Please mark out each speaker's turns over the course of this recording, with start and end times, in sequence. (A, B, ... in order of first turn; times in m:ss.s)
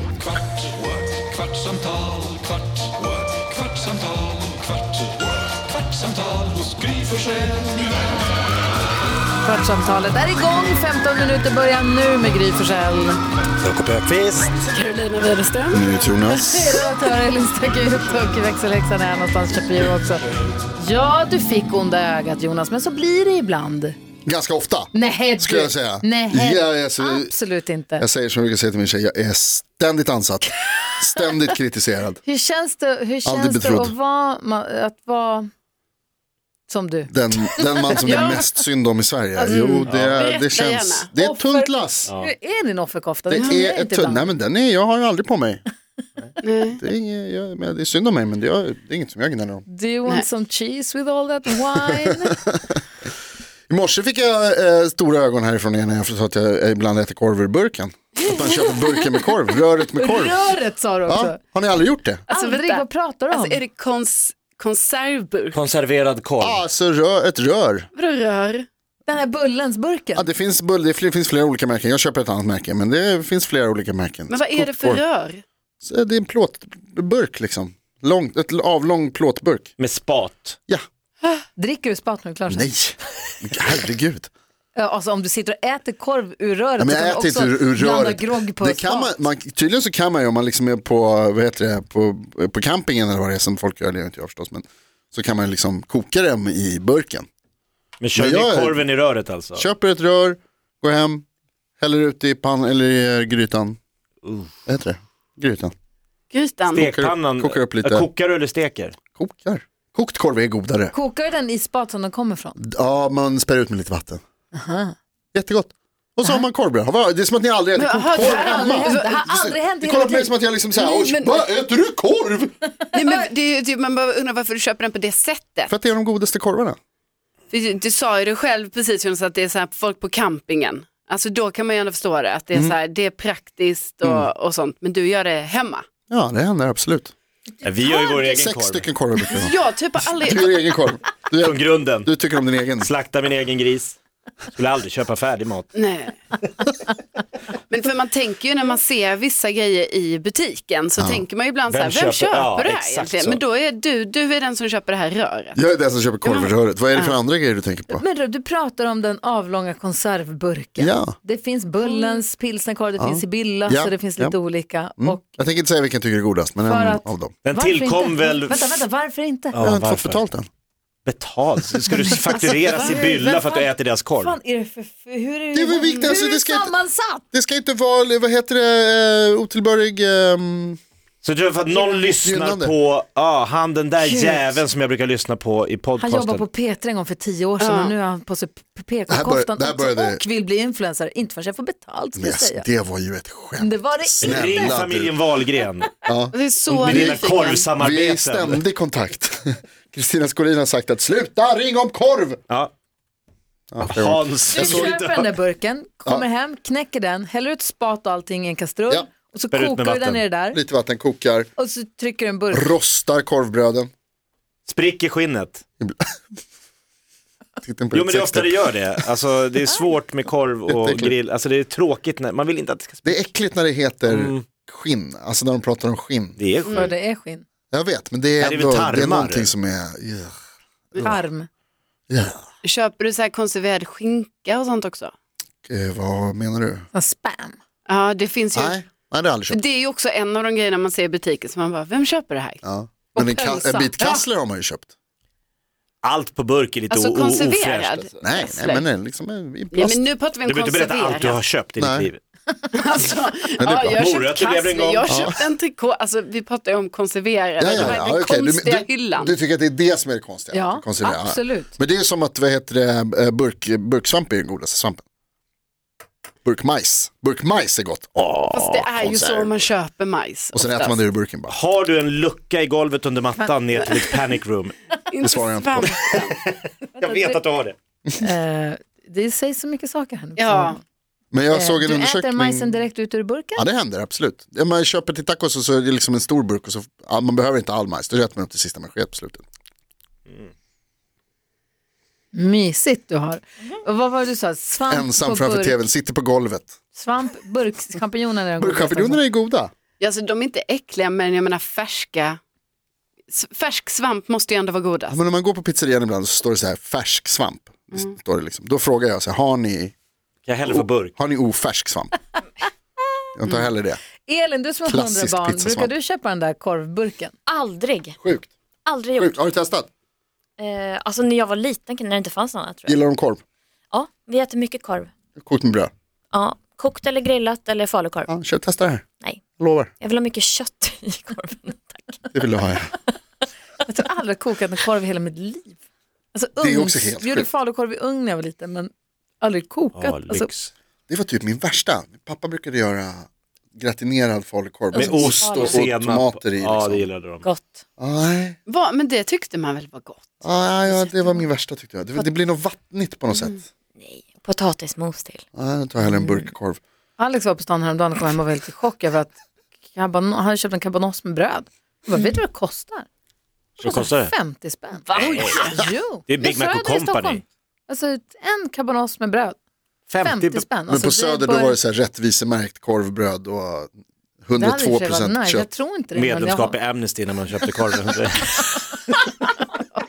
0:00.2-0:04.8 A
0:05.8-0:07.8 A
0:09.4-0:13.2 B
0:13.6-0:14.6 C
0:14.6-0:15.8 D
0:15.7-0:16.9 E
0:16.2-0:24.0 B
0:24.3-0:27.3 E
0:24.9-0:28.0 B
0:28.0-0:32.2 E
0:32.2-0:35.5 B
0:33.2-0:34.0 E
0:36.7-0:38.4 B
0:37.1-0:42.1 E
0:38.0-0:38.4 D
0:39.5-0:41.1 D
0:39.8-0:40.2 C
0:41.2-0:44.3 B
0:43.3-0:45.6 E
0:46.4-0:46.8 D
0:46.8-0:49.6 E
0:49.7-0:52.4 B
0:52.0-0:52.7 E
0:53.7-1:02.2 E
1:00.0-1:01.4 B
1:02.3-1:05.6 D
1:02.3-1:03.6 B
1:05.5-1:06.6 C
1:06.4-1:07.9 E
1:08.0-1:08.7 D
1:09.1-1:10.3 B
1:10.2-1:15.0 E
1:14.3-1:15.4 D
1:15.8-1:19.7 E
1:19.8-1:20.6 C
1:21.6-1:22.7 B
1:22.5-1:24.3 E
1:24.8-1:29.3 B
1:26.8-1:37.3 E
1:38.0-1:39.7 C
1:38.2-1:38.8 E
1:39.6-1:41.2 E
1:41.8-1:43.8 E
1:44.2-1:44.5 C
1:44.7-1:45.7 E
1:46.3-1:46.9 D
1:46.7-1:49.0 C
1:46.8-1:48.1 E
1:49.2-1:50.9 E
1:50.9-1:52.6 B
1:52.6-1:54.2 E
1:54.5-1:55.0 B
1:55.3-2:02.6 E
1:57.8-1:59.2 D
1:58.2-2:00.3 B
2:00.8-2:01.4 D
2:02.9-2:05.7 D
2:05.7-2:06.8 E
2:07.5-2:15.8 D
2:16.1-2:17.1 E
2:17.6-2:18.9 C
2:17.9-2:18.2 D
2:18.3-2:19.6 E
2:19.2-2:20.7 D
2:20.2-2:22.9 E
2:21.4-2:22.1 C
2:22.8-2:24.0 C
2:24.6-2:25.7 C
2:25.8-2:26.2 D
2:27.7-2:35.6 D
2:31.0-2:31.2 E
2:31.7-2:33.4 C
2:35.6-2:38.0 E
2:36.2-2:37.2 D
2:37.9-2:45.4 B
2:40.8-2:41.2 E
2:41.9-2:42.2 D
2:43.0-2:44.4 E
2:45.0-2:47.3 E
2:46.7-2:49.6 B
2:47.4-2:48.8 C
2:49.5-2:50.2 C
2:49.6-2:50.5 E
2:51.1-2:54.4 C
2:52.0-2:57.2 B
2:52.3-2:53.1 D
2:55.5-2:56.8 E
2:57.3-3:00.8 E
3:01.2-3:06.4 C
3:01.7-3:02.1 B
3:02.2-3:02.8 E
3:04.0-3:04.6 B
3:06.0-3:12.7 B
3:07.6-3:07.9 D
3:09.1-3:10.2 E
3:12.2-3:15.2 E
3:13.6-3:14.8 B
3:14.2-3:16.0 C
3:16.1-3:22.4 E
3:16.3-3:17.7 D
3:16.7-3:18.6 C
3:23.7-3:24.9 E
3:23.8-3:25.3 C
3:24.5-3:30.6 B
3:29.5-3:30.2 C
3:30.5-3:31.5 E
3:31.6-3:32.7 B
3:32.5-3:33.9 E
3:34.7-3:35.6 C
3:35.8-3:36.2 E
3:37.6-3:38.6 E
3:37.9-3:43.2 C
3:40.7-3:41.1 E
3:43.0-3:46.4 E
3:44.1-3:44.4 C
3:46.4-3:46.9 C
3:46.7-3:46.9 D
3:46.7-3:47.4 B
3:47.7-3:50.4 E
3:48.4-3:49.5 C
3:51.0-3:51.5 B
3:52.1-3:52.4 E
3:52.6-3:55.1 D
3:55.7-3:56.9 E
3:56.9-3:57.6 B
3:57.9-3:58.8 D
3:58.5-3:59.6 E
3:59.5-4:02.6 D
4:02.6-4:04.9 E
4:03.2-4:04.3 B
4:06.0-4:08.0 C
4:06.9-4:08.8 D
4:08.2-4:10.1 E
4:09.7-4:11.4 D
4:10.4-4:12.2 C
4:11.8-4:12.1 E
4:12.7-4:19.4 D
4:13.6-4:14.0 E
4:13.9-4:15.2 C
4:15.1-4:15.4 E
4:17.6-4:25.0 E
4:17.7-4:18.0 C
4:20.5-4:21.7 B
4:26.4-4:29.7 E
4:28.5-4:31.0 D
4:30.5-4:31.5 E
4:31.5-4:34.8 C
4:35.1-4:36.4 D
4:35.2-4:35.9 E
4:36.0-4:37.8 C
4:37.1-4:37.4 B
4:38.2-4:40.8 B
4:40.4-4:40.8 D
4:41.3-4:42.8 E
4:41.5-4:43.7 B
4:43.6-4:49.4 E
4:52.3-4:55.8 B
4:54.9-4:56.7 E
4:56.9-4:59.2 B
4:58.6-4:59.7 E
5:00.0-5:02.4 D
5:03.3-5:05.2 D
5:05.1-5:09.9 E
5:10.5-5:11.1 C
5:10.7-5:12.2 E
5:13.4-5:14.0 E
5:14.3-5:17.3 B
5:14.9-5:15.9 E
5:17.5-5:18.2 F
5:18.2-5:18.5 E
5:18.9-5:19.4 F
5:19.2-5:19.9 E
5:20.6-5:23.1 F
5:22.9-5:23.4 E
5:23.9-5:25.1 F
5:25.4-5:25.9 E
5:26.3-5:28.3 F
5:28.3-5:29.0 E
5:29.6-5:29.9 E
5:30.0-5:32.2 F
5:32.3-5:33.0 E
5:33.8-5:35.8 B
5:36.3-5:40.5 B
5:36.6-5:37.5 E
5:40.0-5:40.7 C
5:41.1-5:47.1 E
5:44.9-5:47.5 C
5:45.0-5:45.8 F
5:47.4-5:47.8 F
5:48.0-5:48.6 E
5:48.7-5:50.2 D
5:50.4-5:53.6 E
5:54.0-5:55.4 F
5:55.6-5:56.8 E
5:57.2-5:59.4 B
5:59.9-6:03.1 B
6:03.8-6:04.3 C
6:03.8-6:09.6 B
6:04.9-6:05.7 F
6:05.2-6:07.4 C
6:05.3-6:05.7 D
6:10.1-6:10.7 C
6:10.2-6:11.8 B
6:10.9-6:13.9 E
6:14.4-6:15.7 E
6:14.6-6:16.8 B
6:16.2-6:19.2 C